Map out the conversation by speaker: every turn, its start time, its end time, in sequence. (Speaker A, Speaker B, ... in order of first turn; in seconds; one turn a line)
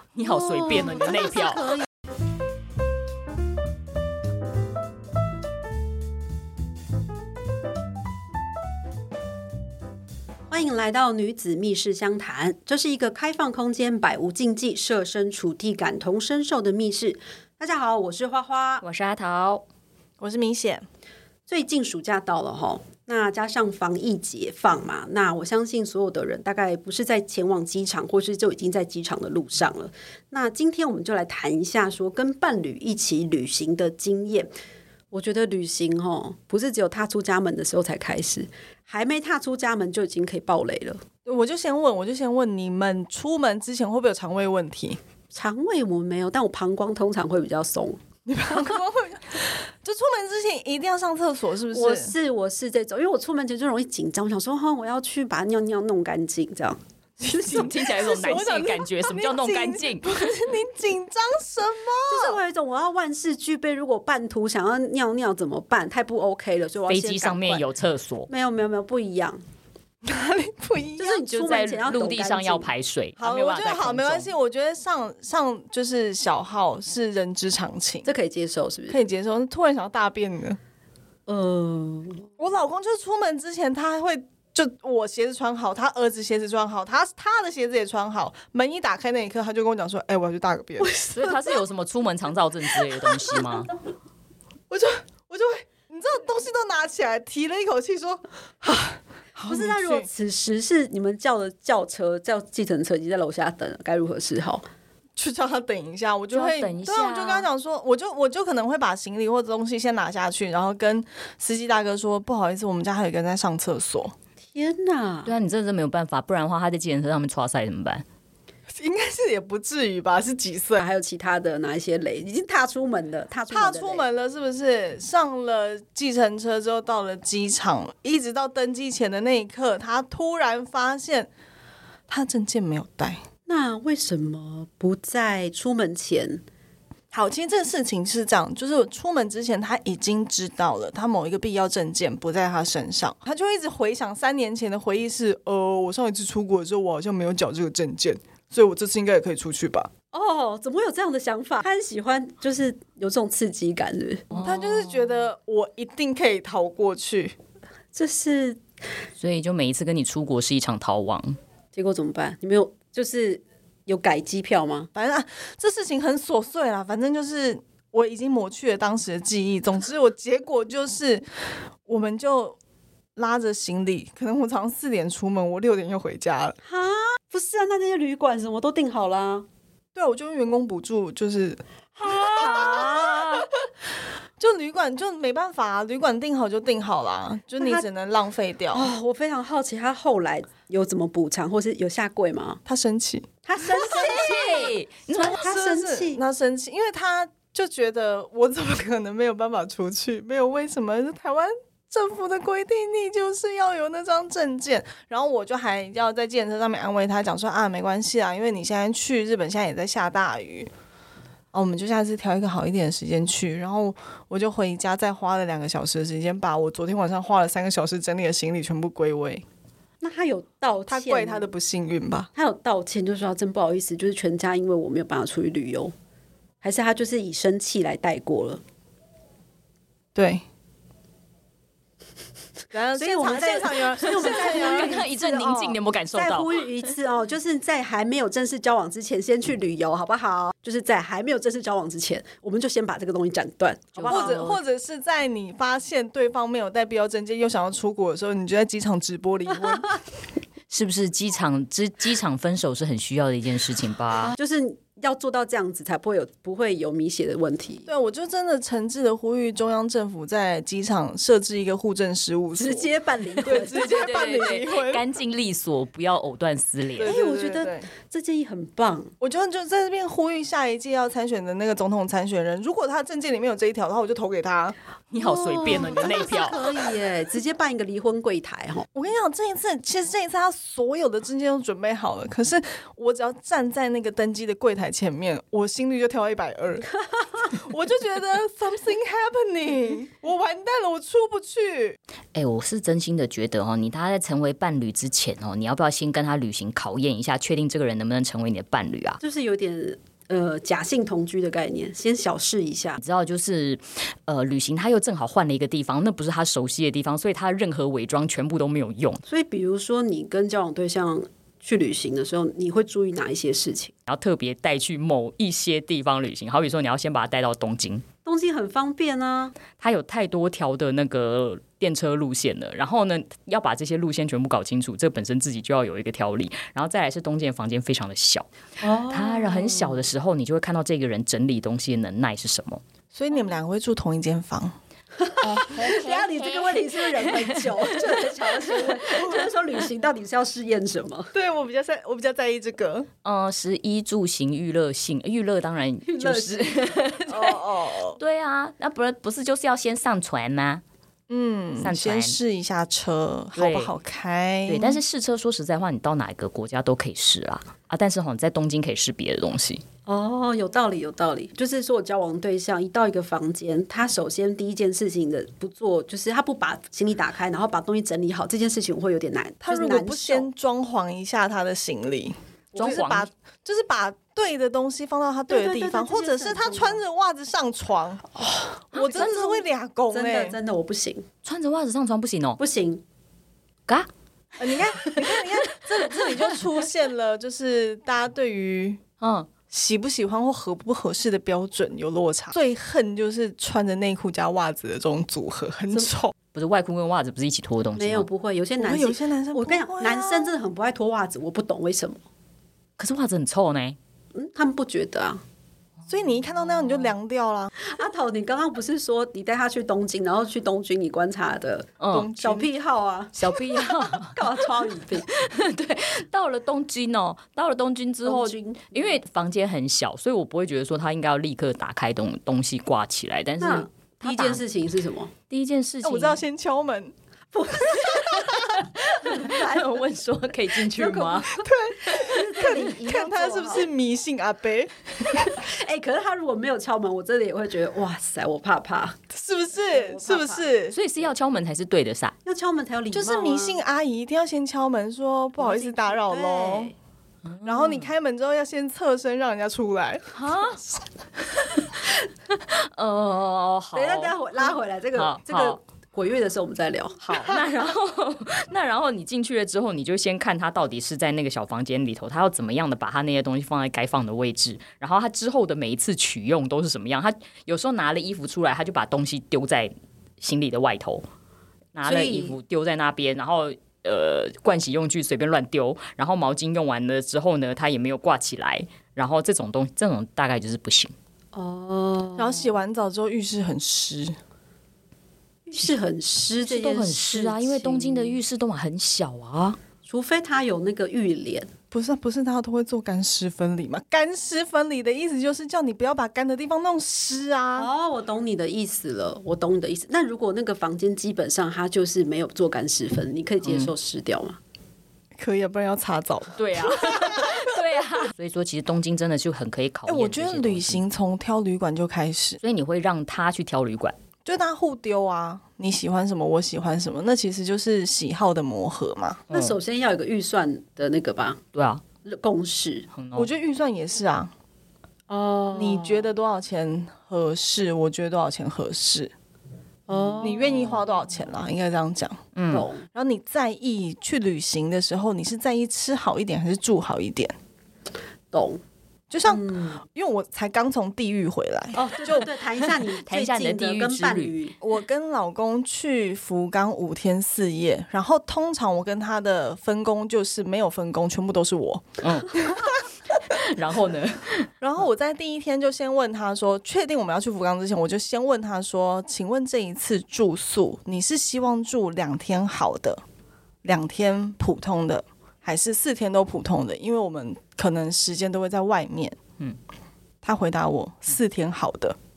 Speaker A: 0.1-1.8
Speaker B: 0.8-1.8
Speaker B: 10.5-18.8
Speaker A: 18.8-19.6
Speaker C: 20.2-20.9
Speaker B: 21.5-34.5
Speaker B: 35.1-41.0
Speaker C: 41.2-45.0
Speaker B: 45.3-48.8
Speaker C: 48.3-52.1
Speaker B: 51.7-57.7
Speaker C: 57.2-62.4
Speaker A: 57.4-60.1
Speaker B: 62.1-67.6
Speaker A: 66.9-68.3
Speaker B: 68.3-69.4
Speaker C: 70.0-71.2
Speaker B: 71.0-72.7
Speaker A: 71.2-74.3
Speaker C: 73.2-78.1
Speaker B: 78.0-79.0
Speaker C: 78.9-80.6
Speaker B: 81.3-82.3
Speaker C: 82.4-91.1
Speaker B: 90.8-91.5
Speaker A: 91.1-93.7
Speaker C: 94.7-100.1
Speaker B: 99.5-104.6
Speaker C: 105.2-114.1
Speaker A: 106.3-107.5
Speaker B: 114.5-115.3
Speaker A: 115.3-118.0
Speaker C: 118.7-120.8
Speaker B: 120.8-124.0
Speaker C: 123.5-131.3
Speaker C: 132.1-133.2
Speaker B: 133.5-136.4
Speaker C: 137.1-149.9
Speaker B: 150.1-154.3
Speaker A: 154.3-155.1
Speaker C: 154.4-157.3
Speaker B: 157.9-158.6
Speaker A: 159.2-161.4
Speaker B: 161.8-164.9
Speaker C: 164.9-172.6
Speaker C: 173.2-176.6
Speaker B: 176.6-179.5
Speaker C: 179.9-183.4
Speaker B: 182.0-183.5
Speaker C: 184.4-188.9
Speaker B: 187.6-187.8
Speaker B: 188.7-192.6
Speaker C: 192.7-194.3
Speaker B: 193.4-196.2
Speaker A: 193.8-195.4
Speaker C: 195.1-210.7
Speaker C: 211.5-219.4
Speaker B: 220.0-221.5
Speaker C: 220.9-222.3
Speaker B: 222.3-225.9
Speaker B: 226.6-228.6
Speaker C: 230.2-230.4
Speaker C: 232.7-235.1
Speaker B: 233.0-244.5
Speaker A: 234.1-236.6
Speaker A: 244.0-244.6
Speaker C: 244.1-249.9
Speaker A: 250.7-254.4
Speaker B: 254.2-257.9
Speaker C: 257.9-262.9
Speaker B: 262.6-264.2
Speaker C: 263.4-265.0
Speaker A: 263.4-267.2
Speaker C: 267.0-267.9
Speaker B: 267.1-269.1
Speaker C: 269.2-274.8
Speaker A: 275.1-276.9
Speaker B: 275.2-278.9
Speaker C: 278.9-286.9
Speaker C: 287.4-292.0
Speaker A: 292.4-299.2
Speaker B: 299.2-303.0
Speaker A: 303.0-309.2
Speaker B: 309.3-313.9
Speaker A: 314.1-318.0
Speaker B: 318.2-319.6
Speaker A: 319.8-328.5
Speaker B: 328.8-330.1
Speaker A: 329.1-332.8
Speaker C: 333.1-334.8
Speaker B: 335.2-341.3
Speaker A: 335.5-339.3
Speaker C: 341.3-343.1
Speaker A: 343.2-350.8
Speaker B: 346.1-347.1
Speaker C: 347.3-348.2
Speaker C: 351.3-355.0
Speaker A: 351.8-352.4
Speaker A: 353.6-353.9
Speaker A: 354.7-359.8
Speaker B: 360.1-370.5
Speaker C: 369.6-378.3
Speaker A: 372.8-373.3
Speaker B: 375.5-377.0
Speaker B: 378.4-379.2
Speaker A: 378.9-379.6
Speaker C: 378.9-380.6
Speaker B: 380.1-381.3
Speaker A: 381.4-382.6
Speaker B: 382.6-383.0
Speaker C: 384.6-389.0
Speaker A: 384.6-386.6
Speaker A: 389.2-389.5
Speaker C: 389.7-396.3
Speaker A: 396.5-398.3
Speaker B: 398.0-402.2
Speaker C: 398.8-400.6
Speaker A: 403.0-404.0
Speaker B: 404.3-405.4
Speaker C: 406.1-407.7
Speaker A: 406.7-407.1
Speaker B: 407.8-415.3
Speaker A: 412.0-412.3
Speaker C: 412.1-412.7
Speaker A: 413.4-414.5
Speaker A: 415.3-424.6
Speaker B: 418.2-419.2
Speaker B: 423.6-425.3
Speaker A: 425.5-426.4
Speaker C: 426.0-427.1
Speaker B: 427.5-429.9
Speaker C: 427.9-428.9
Speaker A: 429.2-431.6
Speaker B: 430.8-433.9
Speaker C: 431.6-434.9
Speaker A: 432.1-432.4
Speaker B: 435.4-439.2
Speaker C: 439.3-441.0
Speaker B: 439.9-440.7
Speaker A: 440.9-442.3
Speaker B: 442.5-443.8
Speaker C: 443.1-446.9
Speaker B: 445.6-446.9
Speaker A: 447.4-448.1
Speaker C: 447.6-450.8
Speaker A: 450.4-450.8
Speaker A: 451.6-451.9
Speaker A: 452.5-455.8
Speaker B: 453.9-457.5
Speaker A: 457.2-471.2
Speaker C: 457.3-457.6
Speaker A: 471.9-481.1
Speaker B: 472.0-472.6
Speaker B: 481.5-482.8
Speaker C: 482.4-484.4
Speaker B: 485.7-488.4
Speaker A: 486.6-489.8
Speaker B: 490.1-491.7
Speaker C: 491.9-497.9
Speaker B: 497.8-504.6
Speaker A: 503.6-503.9
Speaker C: 505.4-507.8
Speaker A: 506.6-511.0
Speaker C: 510.1-512.6
Speaker A: 512.6-514.1
Speaker C: 514.5-519.4
Speaker B: 519.5-521.6
Speaker A: 519.5-519.8
Speaker A: 521.7-522.0
Speaker B: 522.2-523.1
Speaker A: 523.1-523.5
Speaker C: 523.4-524.5
Speaker B: 525.3-526.3
Speaker C: 525.7-529.3
Speaker B: 530.1-531.0
Speaker C: 530.4-532.4
Speaker A: 532.5-532.9
Speaker B: 532.7-533.1
Speaker C: 533.1-537.5
Speaker B: 538.5-538.8
Speaker C: 539.3-542.5
Speaker B: 539.5-540.0
Speaker B: 542.0-544.8
Speaker A: 543.0-544.5
Speaker C: 544.8-552.9
Speaker A: 552.2-554.7
Speaker C: 554.8-563.2
Speaker C: 563.8-569.4
Speaker C: 570.4-572.2